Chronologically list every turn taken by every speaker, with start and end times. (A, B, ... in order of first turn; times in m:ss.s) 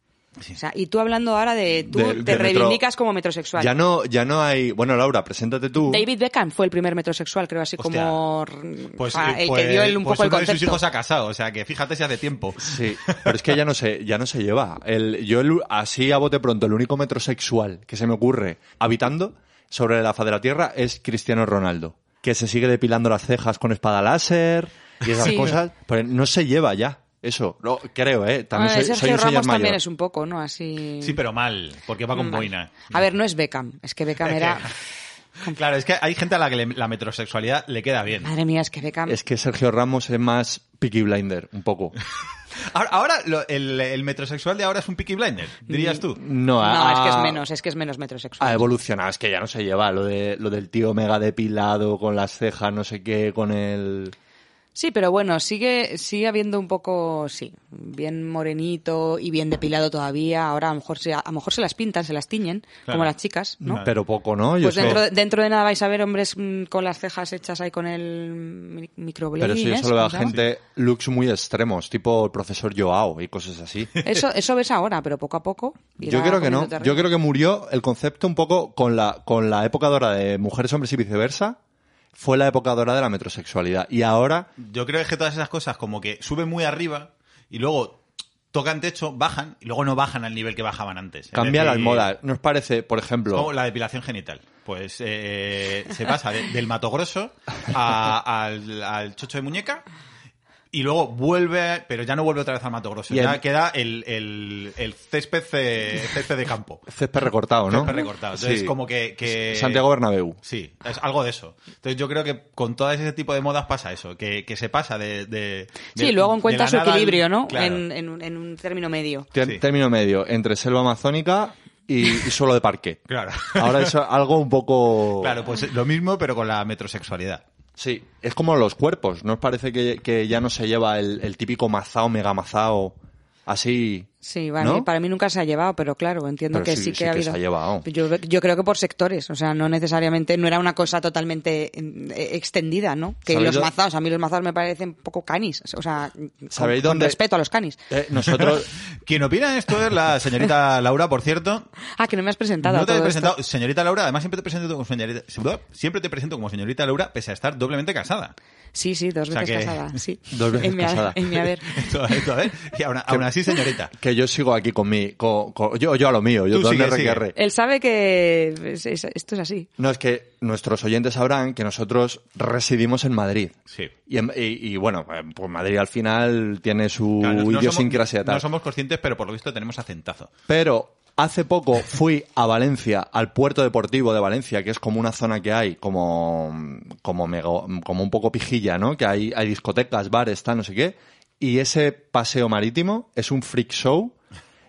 0:00.6-0:03.7 A
0:01.9-0:02.8 B
0:03.6-0:06.0 B
0:05.9-0:10.8 A
0:07.8-0:08.2 C
0:09.0-0:13.4 C
0:12.6-0:29.8 B
0:25.2-0:25.5 A
0:28.6-0:31.2 A
0:31.0-0:32.9 C
0:32.1-0:34.7 A
0:34.2-0:34.8 C
0:35.5-0:38.3 C
0:38.2-0:39.2 A
0:39.1-0:42.0 B
0:42.6-0:46.2 C
0:45.7-0:46.0 A
0:46.2-0:47.4 B
0:46.6-0:48.7 A
0:48.4-0:54.2 B
0:54.8-1:03.8 A
1:03.6-1:03.9 C
1:03.7-1:05.1 B
1:04.6-1:10.4 A
1:09.4-1:13.9 B
1:14.0-1:17.1 A
1:16.0-1:21.6 B
1:22.2-1:24.5 B
1:24.6-1:28.0 C
1:28.5-1:32.1 C
1:31.3-1:33.5 B
1:33.3-1:39.8 C
1:40.7-1:46.8 C
1:43.1-1:43.4 B
1:46.9-1:48.7 B
1:47.7-1:49.8 C
1:49.3-1:50.4 B
1:50.4-1:57.9 C
1:56.0-1:59.3 A
1:59.4-2:05.4 B
2:03.1-2:03.9 C
2:05.2-2:07.4 C
2:07.8-2:13.0 B
2:13.5-2:14.9 B
2:14.2-2:27.8 A
2:16.5-2:17.9 B
2:23.3-2:23.7 B
2:26.5-2:27.2 B
2:27.9-2:28.7 B
2:29.0-2:31.7 C
2:32.0-2:33.4 A
2:32.6-2:38.3 C
2:38.7-2:41.8 A
2:39.3-2:40.0 C
2:40.3-2:41.2 B
2:41.7-2:43.9 C
2:43.9-2:47.4 B
2:46.5-2:47.3 C
2:47.4-2:49.7 A
2:49.8-2:53.6 B
2:54.1-2:58.4 B
2:57.2-3:00.3 C
3:00.5-3:14.2 B